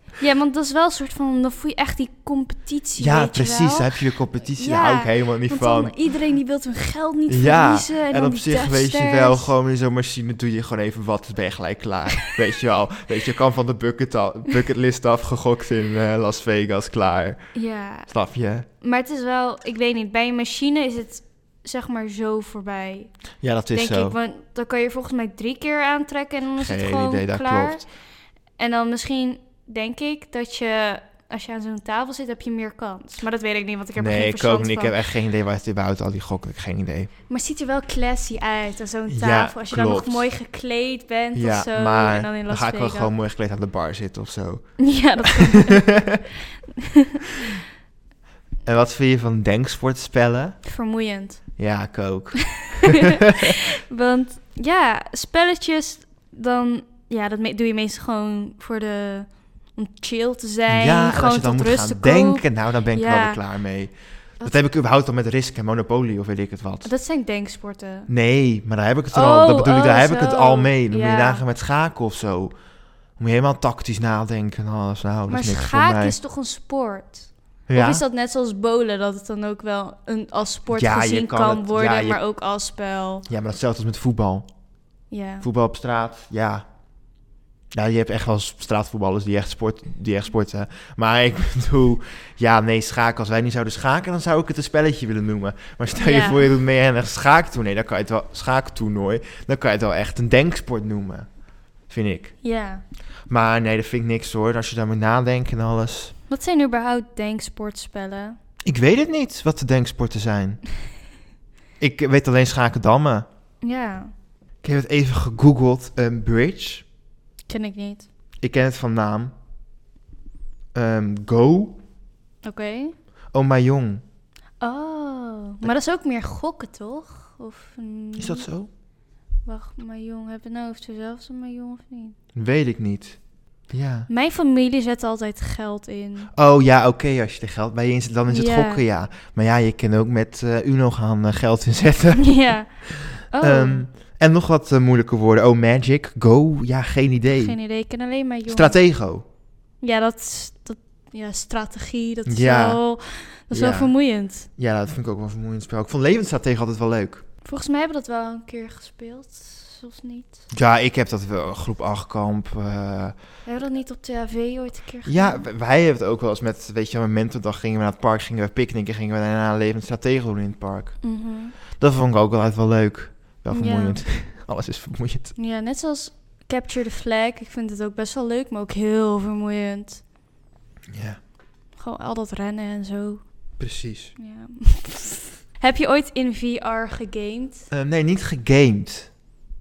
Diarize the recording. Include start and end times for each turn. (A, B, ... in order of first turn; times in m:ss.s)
0:00.2-0:09.5 A
0:03.0-0:05.9 B
0:07.3-0:18.6 B
0:17.5-0:18.1 A
0:18.7-0:27.9 A
0:23.4-0:24.2 B
0:26.6-0:27.8 B
0:28.6-0:34.9 A
0:34.0-0:37.1 B
0:37.3-0:43.1 A
0:39.1-0:40.3 B
0:41.3-0:45.3 B
0:44.8-0:46.1 A
0:45.8-0:46.2 B
0:48.6-0:50.6 B
0:50.6-0:51.6 A
0:51.6-0:53.0 B
0:53.5-1:03.4 A
1:00.7-1:06.9 B
1:06.8-1:08.1 A
1:08.1-1:12.6 B
1:09.1-1:11.4 A
1:13.2-1:16.2 B
1:15.3-1:23.3 A
1:17.7-1:18.0 B
1:20.7-1:22.2 B
1:23.3-1:24.5 B
1:25.1-1:25.5 A
1:25.4-1:26.6 B
1:27.7-1:41.3 B
1:36.0-1:36.5 A
1:41.9-1:42.4 B
1:42.4-1:42.8 A
1:43.3-1:46.1 B
1:46.3-1:48.4 A
1:48.6-1:50.6 B
1:51.8-1:53.3 B
1:53.6-1:54.1 A
1:54.6-1:56.9 B
1:57.5-1:58.1 A
1:58.4-1:59.3 B
2:00.7-2:01.8 B
2:02.4-2:03.0 A
2:03.3-2:04.0 B
2:04.6-2:08.5 A
2:08.2-2:08.7 B
2:09.4-2:12.2 A
2:12.3-2:14.1 B
2:14.1-2:16.3 A
2:16.3-2:27.6 B
2:18.3-2:18.8 A
2:22.2-2:23.9 A
2:27.3-2:28.8 A
2:28.5-2:29.2 B
2:29.8-2:34.5 A
2:32.3-2:32.9 B
2:33.5-2:37.2 B
2:37.4-2:40.4 A
2:40.5-2:43.2 B
2:43.4-2:45.4 A
2:45.0-2:55.3 B
2:51.0-2:51.5 A
2:53.5-2:54.0 A
2:55.4-3:00.0 A
3:00.9-3:01.2 B
3:01.8-3:03.6 A
3:03.6-3:04.2 B
3:04.2-3:07.7 A
3:07.7-3:09.1 B